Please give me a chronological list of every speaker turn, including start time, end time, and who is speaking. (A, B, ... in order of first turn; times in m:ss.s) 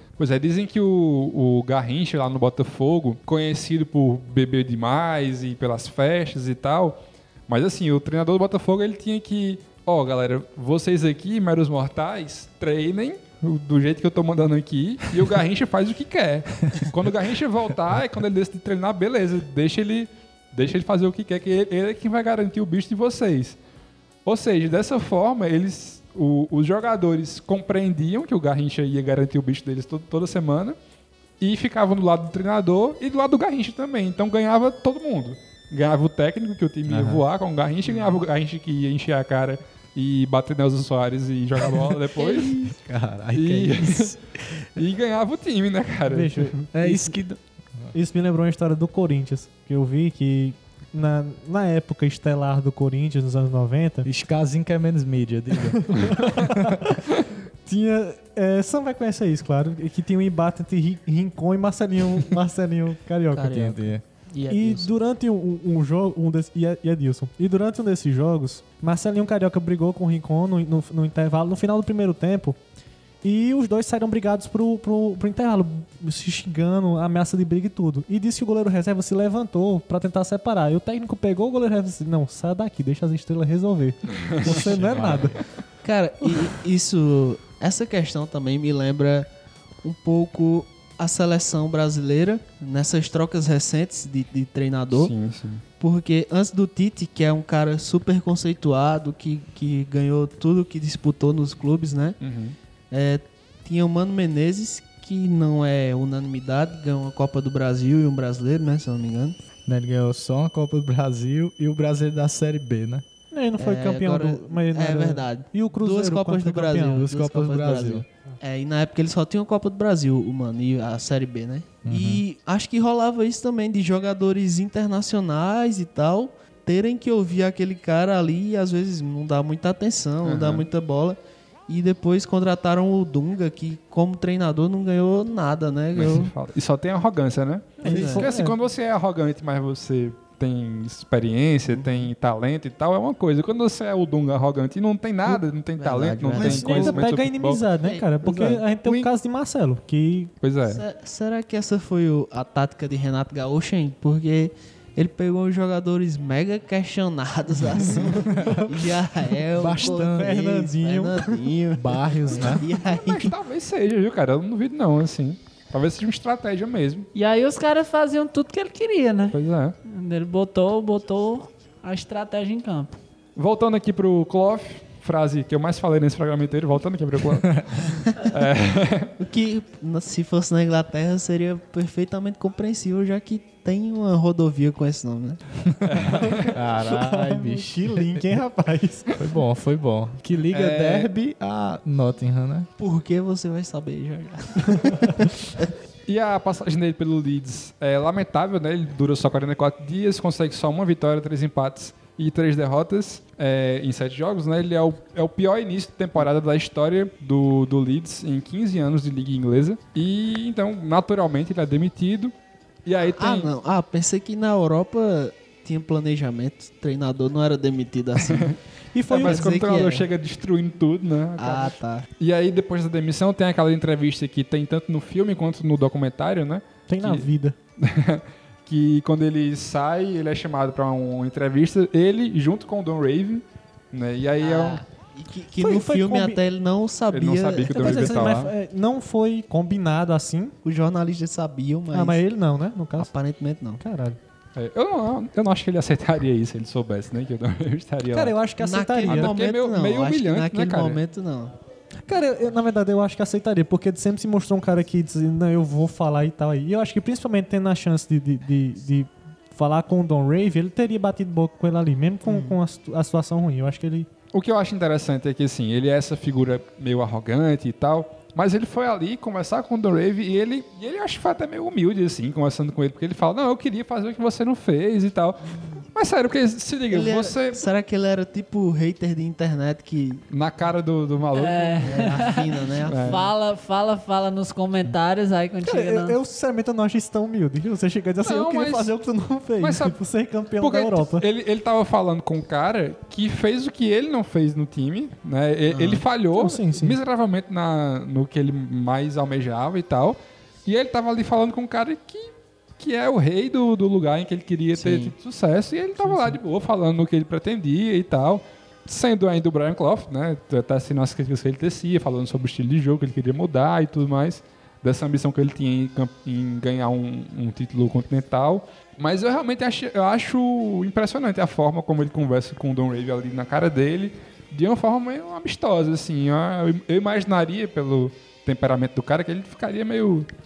0:00.2-0:07.0 A
0:07.5-0:23.6 A
0:24.2-0:30.8 A
0:31.4-0:42.6 A
0:36.9-0:37.2 B
0:42.2-0:42.5 C
0:42.3-0:44.2 B
0:43.3-0:44.2 A
0:44.8-0:46.5 A
0:46.1-0:47.2 D
0:46.7-0:47.9 B
0:47.9-0:54.1 D
0:54.0-0:56.7 B
0:55.9-0:57.0 D
0:57.7-1:03.4 D
1:03.3-1:04.9 C
1:03.4-1:04.0 B
1:04.5-1:12.6 D
1:13.2-1:25.4 D
1:24.1-1:25.4 A
1:25.8-1:29.3 C
1:29.8-1:35.1 C
1:34.9-1:35.6 A
1:35.8-1:42.2 C
1:42.2-1:42.6 A
1:42.9-1:49.4 C
1:49.7-1:53.0 B
1:53.3-1:57.0 D
1:53.6-2:16.3 C
1:56.9-1:58.1 B
2:01.8-2:02.2 B
2:10.2-2:10.6 A
2:15.9-2:27.6 A
2:17.8-2:18.6 D
2:17.8-2:18.2 C
2:21.7-2:22.1 C
2:25.3-2:27.0 C
2:26.4-2:30.3 D
2:27.8-2:28.5 C
2:28.2-2:29.1 B
2:30.4-2:30.8 A
2:30.7-2:43.3 C
2:38.1-2:38.6 B
2:39.6-2:40.4 B
2:39.7-2:41.4 D
2:41.8-2:42.6 B
2:42.8-2:47.1 A
2:47.2-2:53.0 E
2:49.3-2:49.8 A
2:53.4-2:59.1 A
2:59.2-3:05.4 C
3:05.8-3:06.5 A
3:06.3-3:09.1 D
3:06.5-3:08.4 B
3:09.2-3:12.7 B
3:10.5-3:11.1 A
3:12.8-3:15.7 C
3:16.1-3:32.3 A
3:32.9-3:33.5 A
3:33.2-3:38.6 C
3:38.3-3:38.6 A
3:38.9-3:39.5 D
3:39.1-3:40.1 C
3:39.2-3:47.3 A
3:41.4-3:42.0 C
3:46.9-3:47.6 D
3:47.8-3:54.8 A
3:54.4-3:58.4 C
3:55.6-3:56.4 D
3:57.1-3:58.5 A
3:57.8-4:00.5 D
4:00.6-4:02.2 C
4:01.9-4:03.1 D
4:03.0-4:03.8 C
4:03.8-4:04.2 D
4:04.6-4:08.4 A
4:08.1-4:09.3 D
4:08.6-4:11.5 C
4:09.0-4:11.0 A
4:12.1-4:24.1 D
4:22.3-4:22.6 C
4:24.3-4:37.6 A
4:36.9-4:40.2 C
4:40.3-4:42.3 A
4:41.4-4:42.5 E
4:41.8-4:43.3 C
4:42.9-4:43.2 A
4:43.0-4:46.2 E
4:45.6-4:51.2 D
4:48.2-4:48.9 A
4:49.6-4:50.0 A
4:50.6-5:30.3 A
4:55.7-4:56.0 C
4:56.4-4:57.0 D
5:04.7-5:05.1 C
5:06.0-5:06.4 D